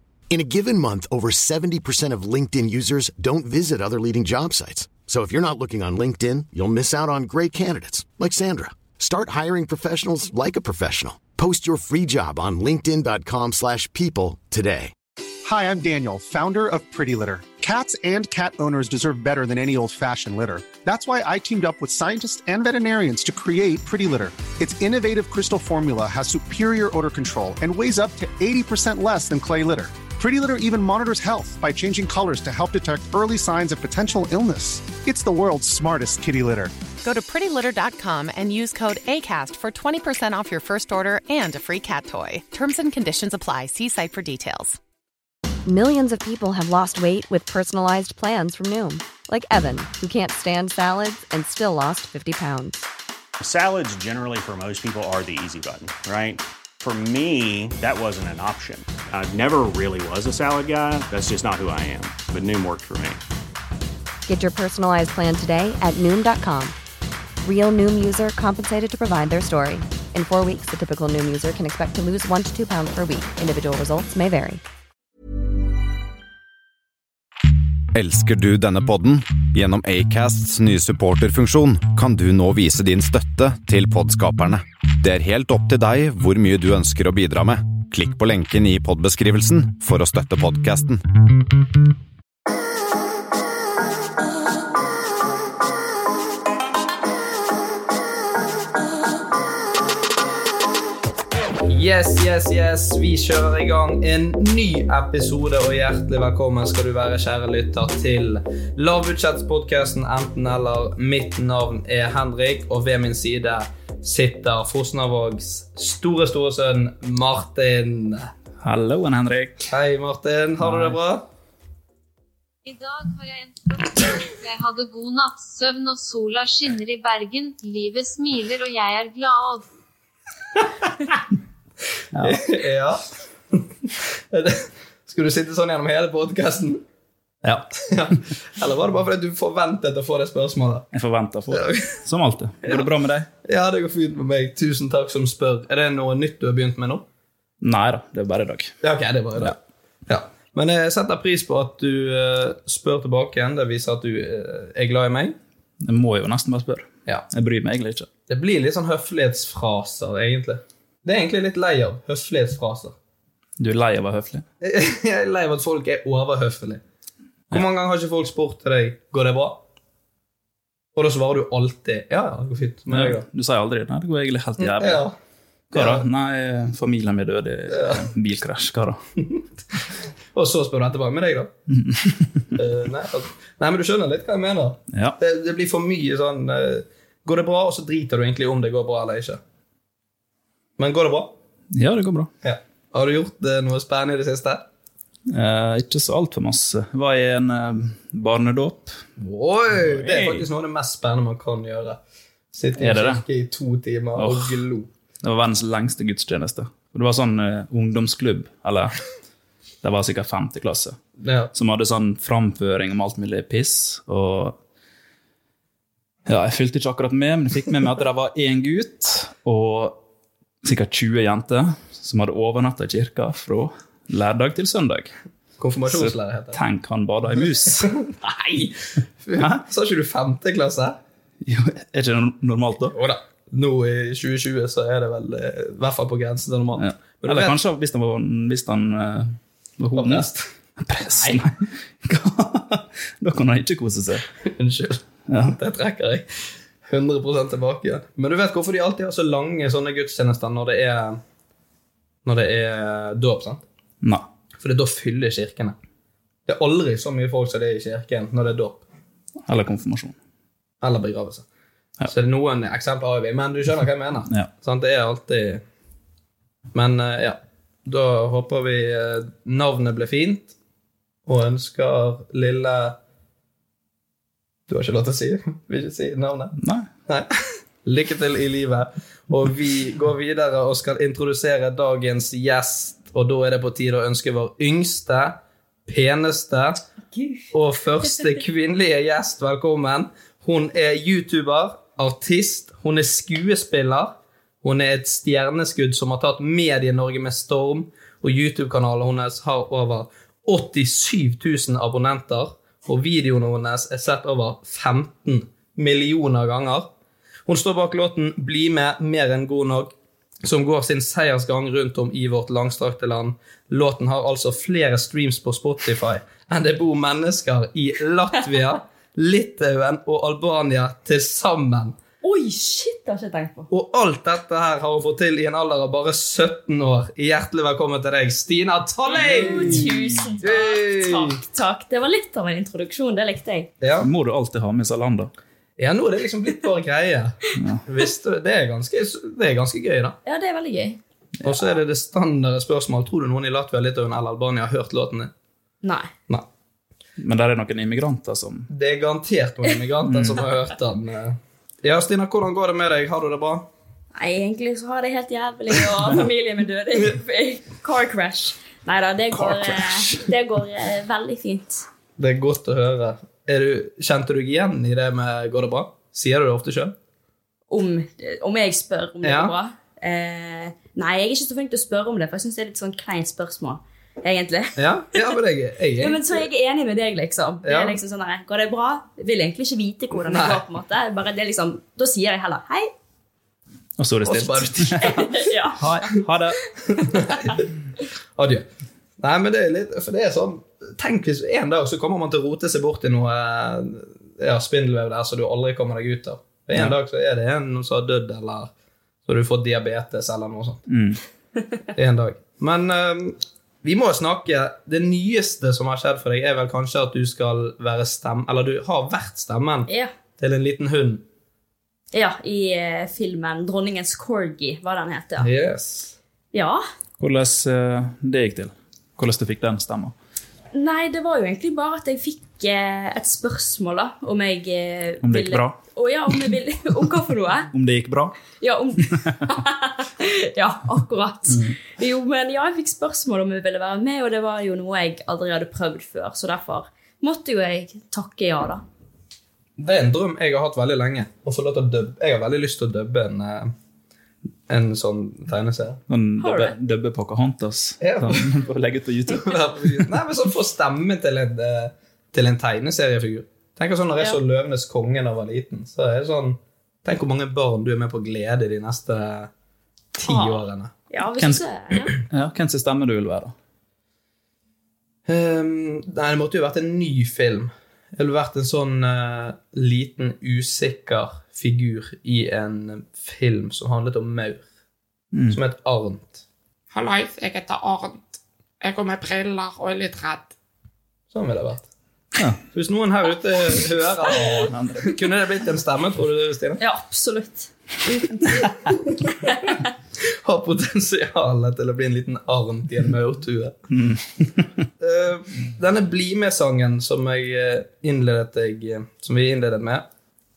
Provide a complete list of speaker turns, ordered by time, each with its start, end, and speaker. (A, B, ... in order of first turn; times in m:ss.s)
0:00.3-0:14.9 A
0:15.4-0:36.7 B
0:37.0-0:44.8 C
0:45.6-0:52.8 D
0:53.4-1:03.2 E
1:04.3-1:06.7 D
1:07.4-1:14.6 D
1:17.9-1:31.0 F
1:41.6-1:58.3 G
1:58.6-1:59.7 H
1:59.7-2:01.2 G
2:00.6-2:01.0 H
2:02.6-2:09.7 I
2:12.1-2:12.4 H
2:12.2-2:13.0 G
2:15.1-2:16.8 G
2:17.9-2:20.8 G
2:20.9-2:23.3 H
2:23.4-2:27.0 G
2:27.6-2:28.8 H
2:28.8-2:29.5 G
2:30.1-2:35.3 G
2:35.8-2:38.1 H
2:38.3-2:42.9 G
2:43.6-2:44.4 H
2:44.6-2:46.8 G
2:47.5-2:49.6 G
2:51.0-2:53.2 G
2:52.9-2:55.0 H
2:54.6-2:55.1 G
2:55.7-2:59.0 H
3:00.4-3:01.5 G
3:01.7-3:02.5 H
3:02.6-3:09.4 G
3:10.8-3:11.3 G
3:11.7-3:12.3 H
3:12.4-3:14.6 G
3:15.3-3:19.0 H
3:19.2-3:22.0 G
3:19.7-3:20.5 H
3:22.5-3:24.8 G
3:22.7-3:23.2 H
3:24.2-3:24.6 H
3:25.2-3:29.0 H
3:29.8-3:31.0 H
3:31.2-3:31.5 G
3:31.5-3:34.6 H
3:36.3-3:40.0 H
3:40.6-3:45.1 H
3:45.6-3:46.5 G
3:45.9-3:47.9 H
3:49.3-3:51.0 G
3:49.4-3:49.6 H
3:51.4-3:52.9 H
3:53.0-3:57.4 G
3:56.8-4:00.3 H
4:00.0-4:00.3 G
4:00.8-4:04.2 H
4:04.6-4:05.0 G
4:05.3-4:05.6 H
4:05.5-4:06.2 G
4:06.9-4:11.2 G
4:12.2-4:13.6 G
4:14.6-4:15.8 G
4:16.5-4:18.8 G
4:19.5-4:20.2 H
4:20.8-4:21.4 G
4:22.1-4:25.6 G
4:26.7-4:30.5 G
4:31.3-4:33.0 G
4:34.7-4:36.5 G
4:36.6-4:36.9 H
4:37.8-4:45.3 G
4:45.9-4:46.8 G
4:47.1-4:47.5 J
4:47.5-5:06.9 G
5:07.5-5:09.9 G
5:10.4-5:21.9 G
5:22.2-5:23.7 J
5:23.7-5:29.7 G
5:29.1-5:33.7 J
5:29.4-5:30.0 H
5:30.4-5:31.2 G
5:34.0-5:35.3 H
5:35.8-5:37.3 G
5:37.6-5:37.8 H
5:37.9-5:40.1 G
5:40.2-5:41.0 J
5:41.4-5:45.3 G
5:45.8-5:46.1 J
5:47.2-5:48.7 H
5:48.7-5:53.6 G
5:50.0-5:50.4 H
5:54.1-6:01.8 J
6:02.2-6:06.9 G
6:07.7-6:14.8 J
6:09.2-6:09.5 G
6:14.8-6:16.1 G
6:16.0-6:22.9 J
6:17.6-6:17.9 G
6:20.3-6:20.6 G
6:24.0-6:26.6 H
6:24.3-6:24.6 G
6:25.0-6:25.8 J
6:27.3-6:27.6 G
6:28.4-6:28.6 G
6:29.2-6:38.7 G
6:39.3-6:40.8 G
6:40.9-6:41.2 H
6:42.0-6:49.9 G
6:49.9-6:50.1 J
6:50.4-6:51.2 G
6:52.1-6:55.5 J
6:55.4-6:56.1 G
6:56.5-6:56.8 J
6:57.2-7:00.1 H
7:00.7-7:07.7 J
7:05.2-7:05.8 H
7:07.7-7:08.4 H
7:08.6-7:18.8 J
7:19.8-7:23.7 G
7:24.7-7:26.0 G
7:26.1-7:30.1 H
7:26.4-7:26.8 J
7:28.1-7:28.4 G
7:29.4-7:39.5 G
7:40.2-7:40.9 G
7:40.2-7:42.1 J
7:42.3-7:43.5 H
7:45.3-7:54.6 G
7:55.3-7:55.6 H
7:55.5-7:56.4 G
7:56.9-8:00.5 K
8:01.3-8:01.8 G
8:02.7-8:06.8 G
8:04.7-8:05.1 H
8:06.8-8:08.8 J
8:09.4-8:09.7 J
8:10.4-8:13.7 G
8:13.9-8:14.7 H
8:15.0-8:20.0 G